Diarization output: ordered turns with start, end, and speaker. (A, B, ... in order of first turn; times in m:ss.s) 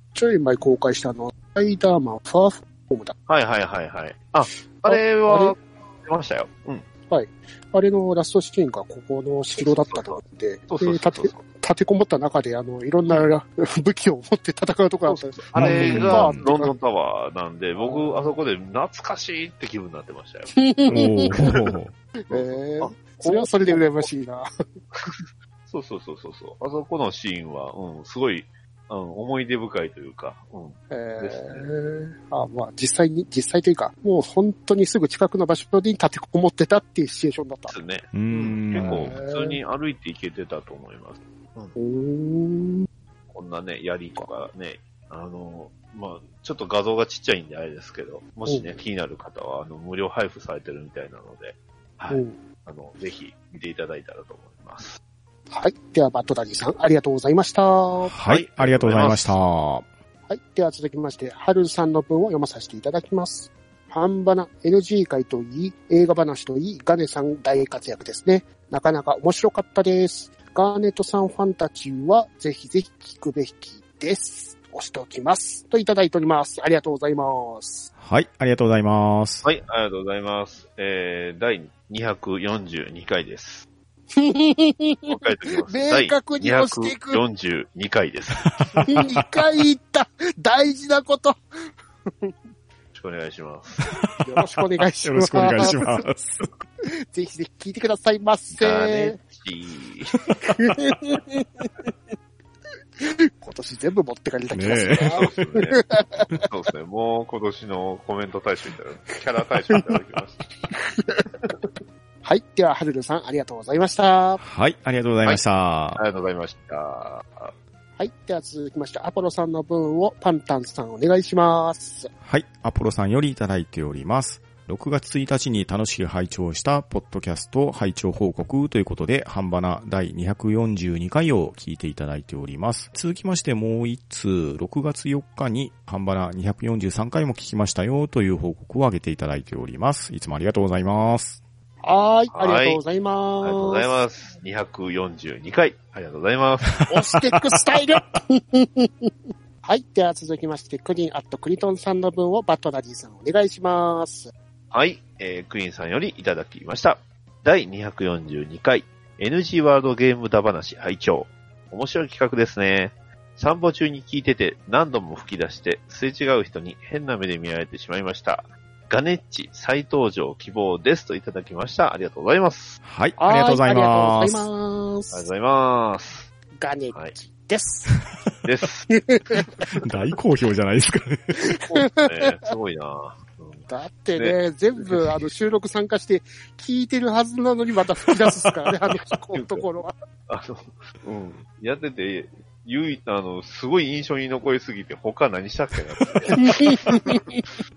0:00.1-0:03.1 A
0:03.3-0:06.8 B
0:04.8-0:05.6 A
0:07.1-0:16.7 A
0:09.6-0:11.4 B
0:15.0-0:20.5 B
0:15.6-0:16.4 C
0:17.8-0:18.3 A
0:20.5-0:21.4 A
0:20.9-0:21.9 C
0:21.3-0:21.6 B
0:22.3-0:24.5 A
0:22.3-0:24.1 B
0:24.9-0:31.7 B
0:30.9-0:37.8 A
0:37.7-0:41.8 B
0:38.1-0:39.2 C
0:38.7-0:39.6 A
0:41.8-0:42.9 A
0:43.3-0:55.0 B
0:48.5-0:48.8 A
0:52.1-0:52.4 A
0:55.5-0:58.1 A
0:58.1-0:59.9 C
0:58.2-0:59.4 B
1:00.3-1:17.9 A
1:18.0-1:19.4 C
1:19.4-1:23.7 B
1:24.1-1:25.1 A
1:25.0-1:28.5 B
1:25.7-1:27.2 A
1:28.6-1:29.4 C
1:28.9-1:31.4 A
1:32.1-1:32.3 A
1:32.9-1:34.0 B
1:34.0-1:34.3 C
1:34.2-1:35.9 A
1:35.0-1:36.4 C
1:37.1-1:39.2 A
1:38.5-1:40.2 B
1:40.6-1:41.9 A
1:43.0-1:46.3 A
1:44.5-1:45.2 C
1:44.8-1:45.8 B
1:46.4-1:50.4 B
1:50.7-1:51.4 A
1:52.2-1:54.4 A
1:54.4-1:56.0 C
1:55.9-1:57.5 B
1:58.0-2:02.1 A
2:02.2-2:21.4 C
2:21.8-2:24.0 A
2:22.3-2:22.8 B
2:23.4-2:26.8 B
2:26.8-2:27.4 C
2:26.9-2:29.1 A
2:29.6-2:34.3 A
2:34.7-2:52.8 B
2:52.8-2:54.5 C
2:53.2-2:55.3 A
2:55.1-2:56.3 B
2:56.6-2:58.0 A
2:58.4-2:58.9 B
2:58.9-2:59.7 A
2:59.8-3:01.6 C
3:01.5-3:02.3 A
3:01.7-3:05.3 B
3:03.7-3:09.9 A
3:09.3-3:09.6 B
3:10.3-3:17.3 B
3:16.3-3:17.4 A